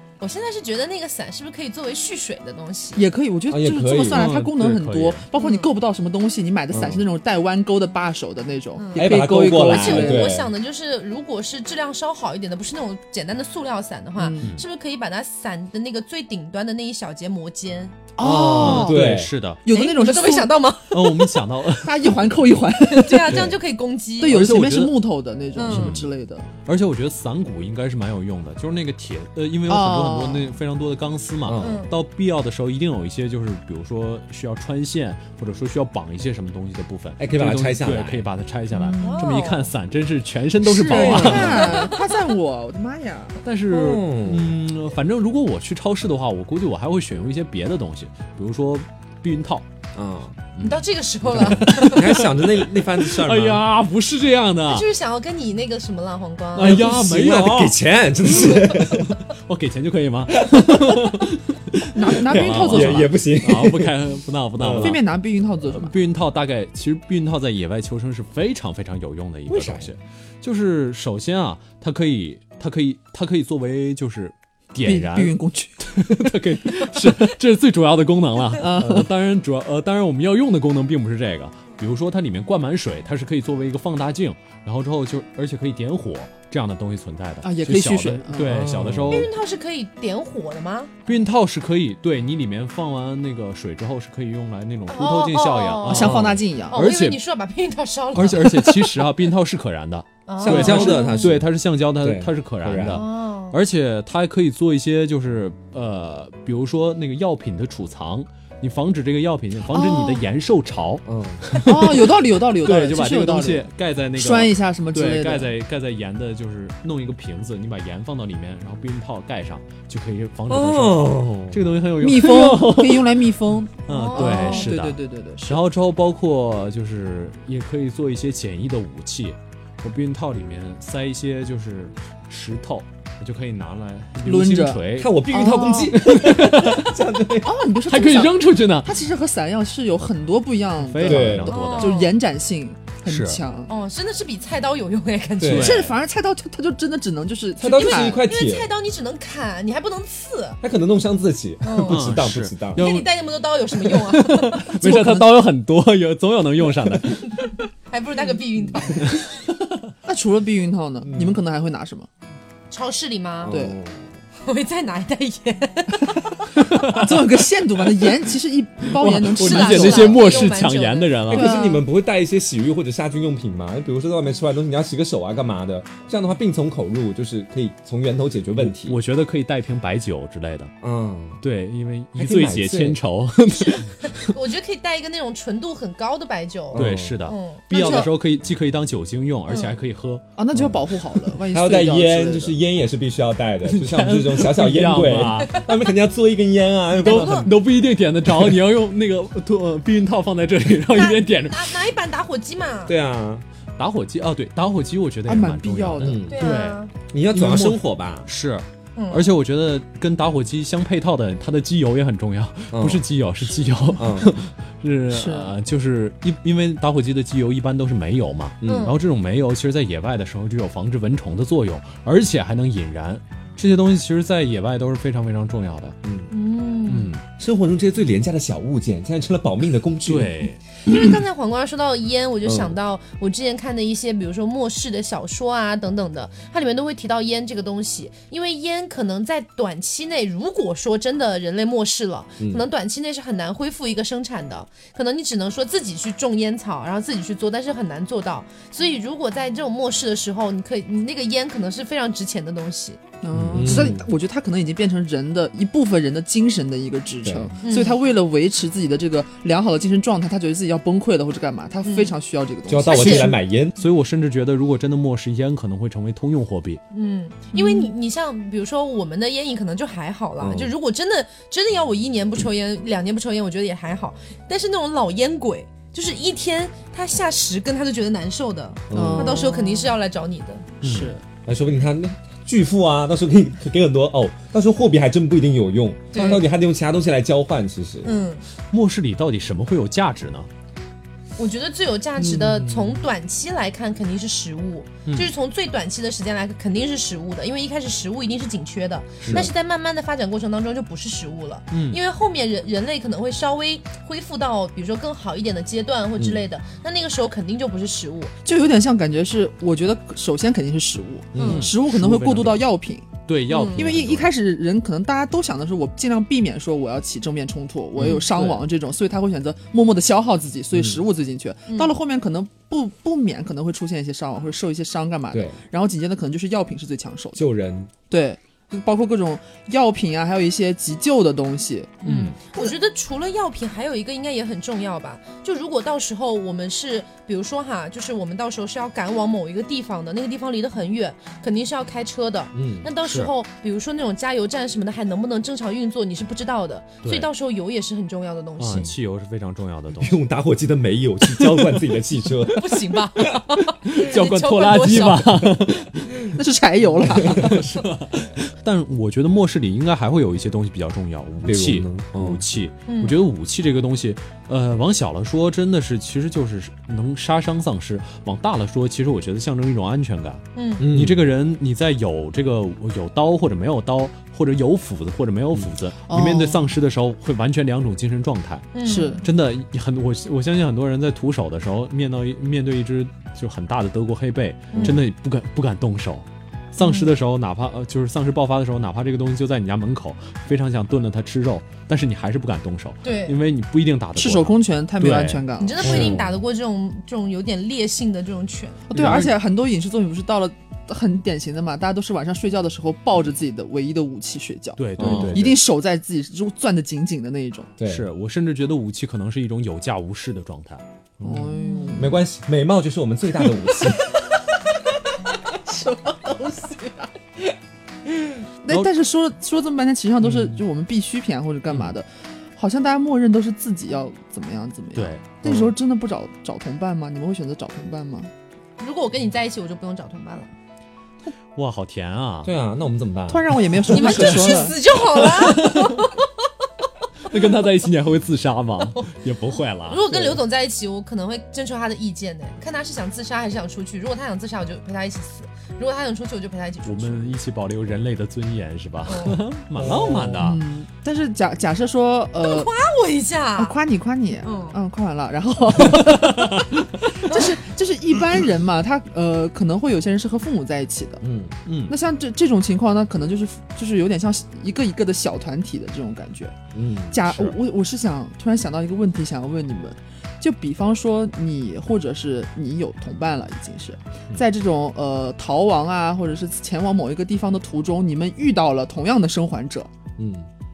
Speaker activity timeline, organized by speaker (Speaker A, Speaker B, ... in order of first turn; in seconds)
Speaker A: 0.2-3.0, 5.4-5.7, 8.8-18.0, 19.7-21.1, 22.9-24.4, 25.6-26.0, 31.6-31.9, 39.0-39.7, 41.1-42.1, 50.6-52.2, 54.7-56.8, 58.4-59.0, 89.1-90.9, 94.9-98.7, 100.3-101.3, 102.9-103.6, 123.9-124.8, 141.5-142.2, 143.7-145.8, 147.7-150.6, 151.6-152.2, 152.8-154.7, 157.4-159.3, 162.7-163.6, 164.4-166.5, 169.3-171.4, 183.5-188.1, 189.5-189.8, 196.9-197.5, 200.9-202.9, 206.3-206.9, 209.0-209.3, 218.7-219.0, 226.3-227.1, 230.8-253.0, 257.6-258.0, 261.8-262.1, 262.9-263.4, 266.9-280.7, 286.1-286.4, 288.0-288.4, 291.4-308.3, 311.4-311.7, 313.5-313.9, 321.7-321.9, 332.0-348.9, 352.5-355.5, 362.9-363.2, 370.6-370.9, 378.7-379.3, 384.7-385.0, 386.8-387.1, 393.0-393.4, 395.6-398.8, 411.6-412.1, 428.8-430.5, 433.9-436.3, 439.9-447.4, 449.1-449.4, 452.4-453.8, 454.4-454.8, 457.2-457.6
Speaker B: 3.0-10.3, 14.2-14.5, 18.2-19.1, 19.6-20.6, 21.7-23.4, 24.2-26.5, 29.7-30.6, 38.7-39.4, 40.6-43.4, 61.9-63.1, 64.8-65.9, 74.8-77.1, 78.6-79.1, 87.4-88.7, 95.8-96.8, 98.4-99.0, 109.7-110.2, 111.6-115.5, 122.0-125.6, 134.2-136.0, 137.4-143.7, 145.6-148.2, 154.7-155.4, 160.0-162.1, 163.5-163.8, 166.7-170.3, 171.3-171.8, 187.7-188.1, 190.4-192.6, 205.3-206.3, 215.1-215.5, 253.2-263.4, 267.5-267.9, 278.9-279.9, 280.8-281.2, 308.4-313.1, 313.7-327.5, 328.1-332.0, 356.4-357.6, 376.1-376.7, 378.9-379.3, 394.2-396.1, 398.9-407.7, 411.2-412.2, 415.6-417.1, 418.6-428.3, 433.3-434.8, 450.4-452.7, 453.6-461.2, 461.9-466.6, 467.1-479.9
Speaker C: 3.5-4.3, 6.7-7.0, 9.0-10.5, 18.2-19.3, 23.3-23.6, 31.4-31.9, 37.2-38.3, 40.9-41.6, 43.7-44.6, 49.9-50.4, 51.3-53.6, 56.6-59.2, 60.4-61.2, 62.3-63.9, 64.6-65.0, 69.5-69.9, 78.8-79.1, 88.5-89.3, 100.4-101.5, 102.0-103.0, 111.1-111.5, 120.5-121.6, 135.0-137.6, 141.0-141.5, 145.4-145.8, 147.6-148.7, 150.6-152.9, 161.0-161.4, 163.4-164.1, 171.3-179.0, 180.8-181.4, 182.2-183.0, 186.7-187.2, 191.5-197.5, 202.9-203.4, 206.0-206.5, 207.1-208.3, 212.7-213.0, 213.9-214.3, 218.6-218.9, 226.0-226.3, 227.4-230.4, 232.4-232.8, 242.4-242.7, 253.4-254.1, 257.2-257.5, 262.7-263.8, 270.4-270.7, 278.9-279.4, 281.5-288.1, 292.3-293.0, 299.2-299.5, 306.2-306.4, 311.3-311.7, 318.0-318.2, 320.7-321.0, 325.3-325.6, 327.4-327.9, 342.6-342.9, 350.0-353.3, 361.4-362.4, 370.8-371.3, 395.8-396.4, 405.0-405.6, 407.8-408.1, 411.2-414.1, 425.4-425.7, 432.4-434.1, 440.1-440.4, 449.8-450.5, 461.2-461.6, 466.7-467.3, 480.2-480.5
Speaker D: 4.1-5.2, 18.5-19.6, 20.9-22.4, 24.3-25.0, 25.6-26.1, 26.7-41.9, 43.4-49.6, 50.5-54.9, 56.5-57.8, 58.5-65.0, 65.7-89.3, 91.1-97.2, 98.1-123.1, 123.9-135.2, 135.9-137.0, 137.9-138.9, 140.8-142.0, 143.1-143.4, 145.5-145.9, 151.8-153.1, 153.8-157.4, 159.0-159.7, 166.5-167.3, 168.9-171.5, 178.6-180.7, 181.4-184.3, 186.8-190.2, 193.7-195.7, 197.0-201.8, 203.8-226.0, 226.9-227.2, 230.1-230.6, 253.5-253.9, 263.8-266.8, 280.8-281.2, 288.7-290.5, 301.7-302.0, 311.4-312.7, 313.3-314.3, 318.0-318.6, 332.0-332.4, 343.0-343.3, 347.0-347.3, 348.6-350.2, 353.8-356.1, 357.1-395.4, 398.9-399.4, 404.8-405.6, 407.9-410.8, 420.2-420.6, 424.9-425.3, 431.6-432.5, 434.1-434.6, 435.2-436.1, 437.2-440.1, 446.9-450.6, 456.0-456.8, 461.6-461.9, 467.3-467.6